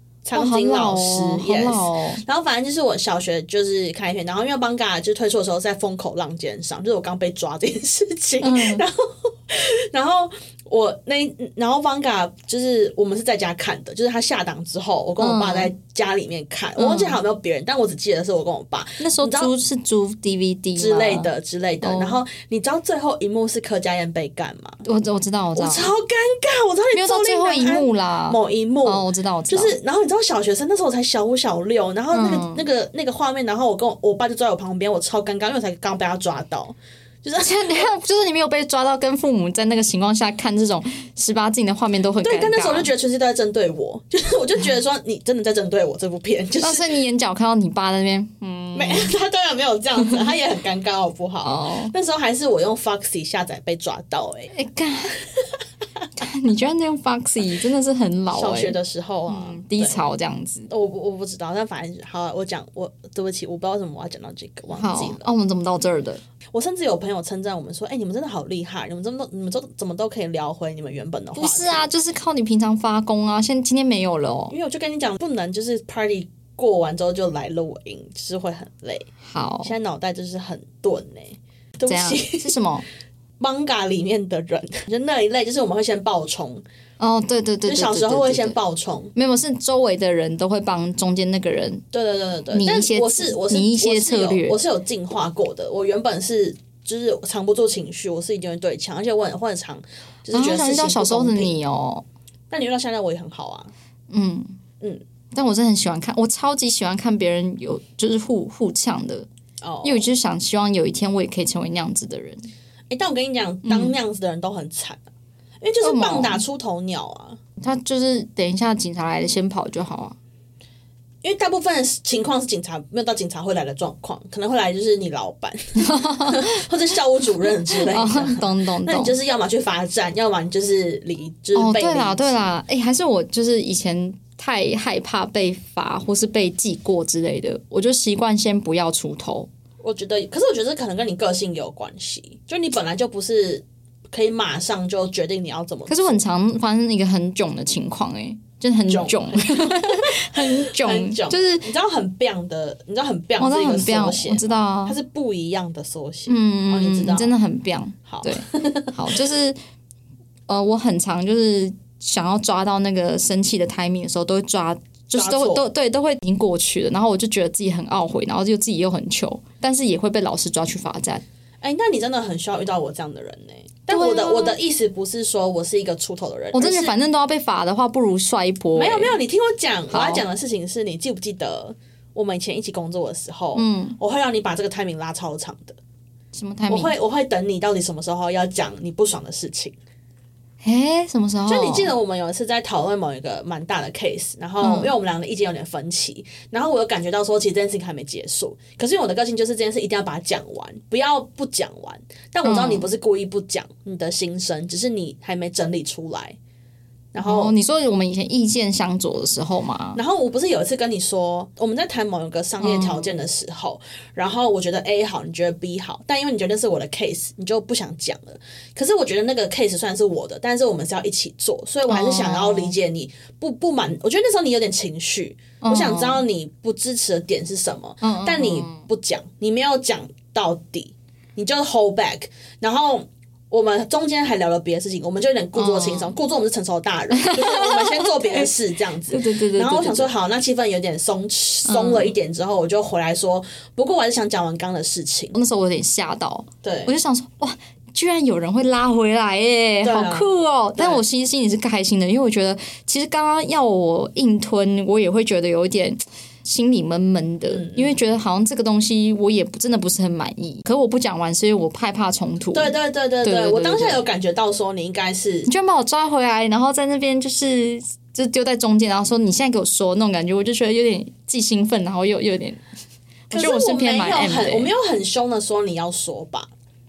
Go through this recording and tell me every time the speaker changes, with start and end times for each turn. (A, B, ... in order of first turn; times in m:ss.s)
0:00.2-0:19.5 A
0:00.3-0:02.2 B
0:08.4-0:08.8 B
0:15.2-0:15.7 B
0:16.8-0:17.2 B
0:19.0-0:21.3 B
0:20.8-0:24.8 A
0:21.8-0:22.2 B
0:24.8-0:25.9 B
0:25.6-0:37.9 A
0:26.9-0:29.8 B
0:32.1-0:32.6 B
0:37.4-0:42.9 B
0:42.2-0:46.9 A
0:46.6-0:49.1 B
0:48.7-0:54.5 A
0:51.4-0:51.9 B
0:54.5-0:55.2 B
0:56.2-1:00.7 B
0:58.3-1:00.0 A
1:00.7-1:05.3 A
1:04.7-1:06.2 B
1:06.5-1:11.9 A
1:11.4-1:14.5 B
1:14.5-1:19.1 A
1:19.2-1:19.7 B
1:19.6-1:22.6 A
1:21.9-1:22.8 B
1:23.4-1:26.6 A
1:27.0-1:28.6 B
1:27.7-1:29.1 A
1:29.2-1:31.8 B
1:31.9-1:41.5 A
1:32.5-1:34.6 B
1:40.3-1:42.0 B
1:42.5-1:43.7 A
1:44.1-1:44.6 B
1:45.3-1:49.3 B
1:49.6-1:50.1 A
1:49.8-1:52.5 B
1:52.9-1:55.0 A
1:53.7-1:53.9 B
1:55.6-1:57.4 A
1:55.8-1:56.4 B
1:57.6-2:00.2 B
2:01.2-2:12.4 A
2:05.8-2:06.6 B
2:07.7-2:09.2 B
2:11.6-2:19.5 B
2:19.8-2:26.2 A
2:25.9-2:31.7 B
2:28.9-2:37.3 A
2:33.4-2:35.0 B
2:36.3-2:39.6 B
2:38.1-2:39.2 A
2:40.5-2:51.2 B
2:45.2-2:45.6 A
2:51.6-2:56.9 A
2:53.9-2:54.6 B
2:56.5-2:59.2 B
2:58.8-3:05.8 A
2:59.9-3:00.2 B
3:03.6-3:04.0 B
3:06.3-3:06.9 B
3:06.7-3:09.8 A
3:10.6-3:11.9 B
3:11.5-3:26.4 A
3:14.6-3:14.9 B
3:22.4-3:22.9 B
3:27.1-3:27.5 A
3:27.2-3:30.0 B
3:30.0-4:05.4 A
3:32.6-3:33.1 B
3:41.9-3:42.8 B
3:45.6-3:46.2 B
3:48.0-3:48.8 B
3:55.6-3:56.2 B
3:57.1-3:58.5 B
3:59.1-4:00.1 B
4:01.6-4:02.1 B
4:05.3-4:24.0 B
4:06.6-4:06.9 A
4:09.8-4:11.0 A
4:17.5-4:17.9 A
4:22.5-4:25.5 A
4:25.5-4:32.6 B
4:33.3-4:34.7 B
4:33.3-4:36.5 A